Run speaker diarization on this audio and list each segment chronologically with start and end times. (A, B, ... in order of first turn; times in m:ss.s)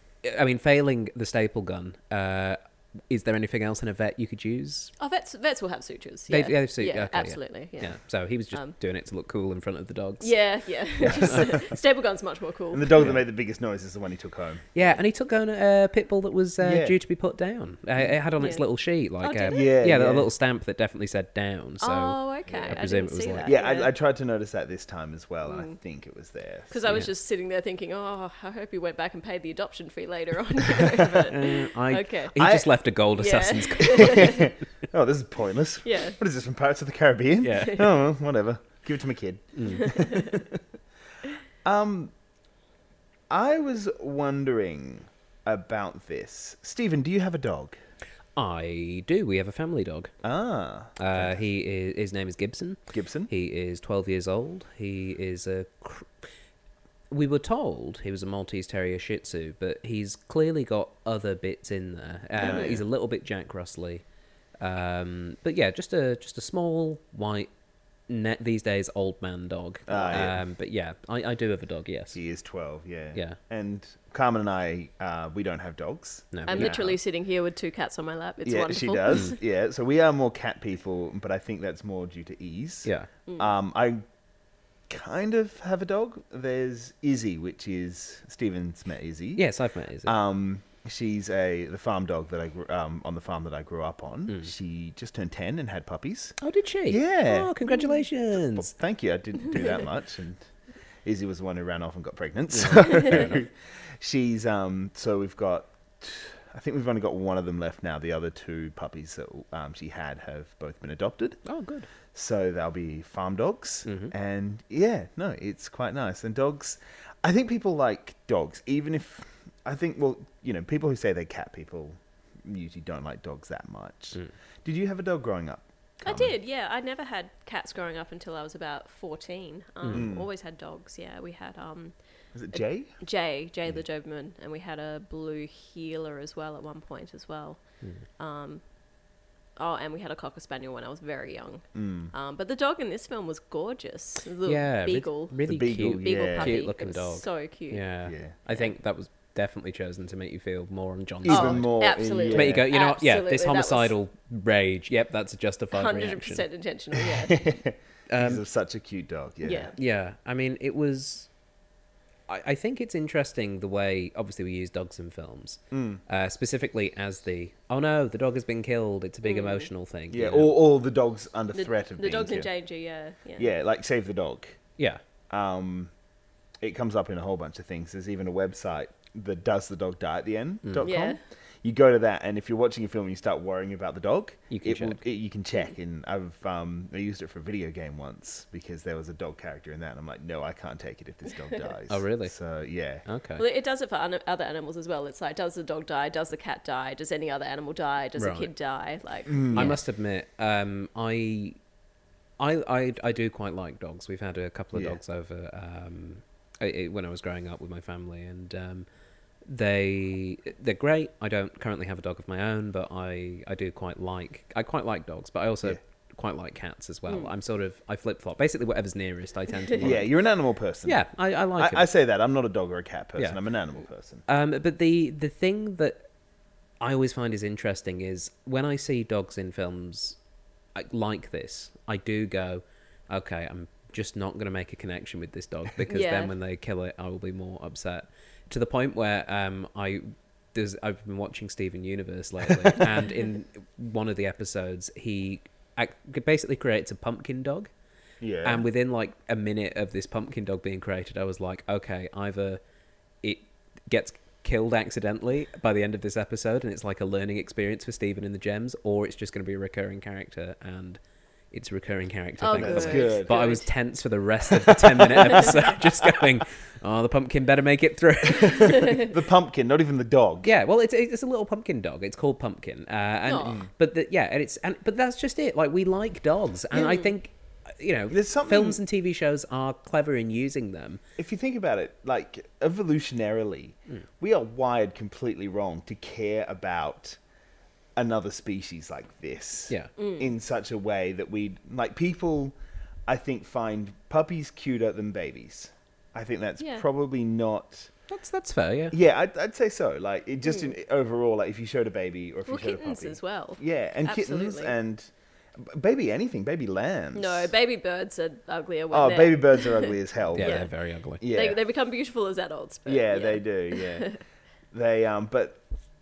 0:00.2-0:02.6 A
0:03.1-0:04.9 A
0:05.0-0:08.0 B
0:06.3-0:10.3 A
0:10.2-0:13.1 B
0:11.0-0:11.6 A
0:11.0-0:11.7 C
0:12.7-0:14.7 C
0:14.7-0:23.5 A
0:16.6-0:17.0 C
0:18.4-0:18.6 B
0:19.2-0:19.8 B
0:19.5-0:20.3 C
0:21.8-0:23.9 B
0:22.5-0:22.8 C
0:23.4-0:27.0 C
0:25.4-0:25.8 B
0:26.7-0:32.4 B
0:30.8-0:31.2 C
0:31.3-0:34.4 A
0:32.4-0:32.7 C
0:33.2-0:34.5 B
0:34.0-0:40.6 C
0:35.8-0:36.2 B
0:37.4-0:37.8 A
0:37.6-0:37.9 B
0:39.6-0:39.9 A
0:39.7-0:40.4 B
0:41.6-0:42.1 C
0:43.3-0:47.8 C
0:48.4-0:50.1 A
0:50.2-0:51.4 C
0:51.0-0:56.1 A
0:52.9-0:53.3 C
0:57.1-1:04.0 A
1:02.4-1:02.8 C
1:02.4-1:02.8 B
1:04.6-1:07.5 A
1:08.1-1:12.2 A
1:09.9-1:10.4 C
1:12.1-1:17.0 C
1:13.1-1:13.4 A
1:16.3-1:16.9 A
1:16.5-1:19.4 B
1:18.4-1:24.0 C
1:22.8-1:23.1 A
1:23.3-1:23.5 B
1:24.9-1:29.5 C
1:29.4-1:30.2 A
1:30.0-1:36.4 C
1:36.4-1:38.7 A
1:36.9-1:37.6 C
1:38.3-1:40.4 C
1:41.0-1:51.4 C
1:42.5-1:43.4 A
1:51.4-1:51.9 A
1:52.1-2:06.4 C
1:53.8-1:54.1 A
2:06.0-2:12.0 B
2:09.8-2:10.1 A
2:09.9-2:10.3 C
2:12.4-2:12.9 C
2:12.5-2:17.6 B
2:18.2-2:18.6 B
2:19.6-2:25.4 B
2:21.8-2:22.1 C
2:24.4-2:36.5 A
2:25.5-2:26.6 C
2:26.0-2:27.9 B
2:28.1-2:28.4 C
2:31.2-2:32.7 C
2:31.3-2:33.9 B
2:35.7-2:37.5 B
2:36.9-2:39.8 C
2:38.1-2:38.4 A
2:39.4-2:39.7 B
2:39.8-2:41.3 A
2:42.3-2:50.5 A
2:45.7-2:46.0 C
2:49.2-2:49.7 B
2:50.1-2:52.5 C
2:51.5-2:53.5 B
2:53.4-2:54.6 C
2:55.3-2:55.9 C
2:56.6-3:13.0 C
3:00.8-3:01.2 B
3:04.5-3:05.0 A
3:11.9-3:12.3 A
3:13.0-3:13.4 A
3:13.4-3:19.8 B
3:18.2-3:18.5 A
3:19.3-3:19.8 C
3:19.5-3:21.6 A
3:22.4-3:28.9 A
3:24.7-3:25.0 C
3:29.5-3:40.1 A
3:39.8-3:41.0 C
3:40.8-3:41.9 A
3:41.6-3:44.2 C
3:44.3-3:46.0 A
3:46.8-3:50.2 A
3:50.8-4:07.7 A
3:55.9-3:56.3 B
4:02.5-4:02.8 C
4:08.2-4:08.6 C
4:08.4-4:12.6 A
4:13.2-4:21.0 A
4:21.5-4:29.0 A
4:22.4-4:23.7 B
4:22.6-4:23.4 C
4:24.5-4:26.3 C
4:28.4-4:30.5 C
4:30.4-4:41.0 A
4:33.3-4:33.6 B
4:36.7-4:37.1 B
4:38.1-4:38.8 C
4:41.2-4:47.2 C
4:48.0-4:52.6 C
4:50.0-4:50.3 B
4:53.1-4:57.9 C
4:56.6-4:56.9 B
4:58.1-4:59.0 A
4:58.9-5:07.5 C
5:00.4-5:00.7 B
5:02.5-5:04.8 B
5:07.2-5:10.7 B
5:08.9-5:10.6 C
5:10.4-5:11.2 A
5:11.2-5:11.6 C
5:11.2-5:14.2 B
5:12.9-5:14.1 C
5:14.7-5:15.6 C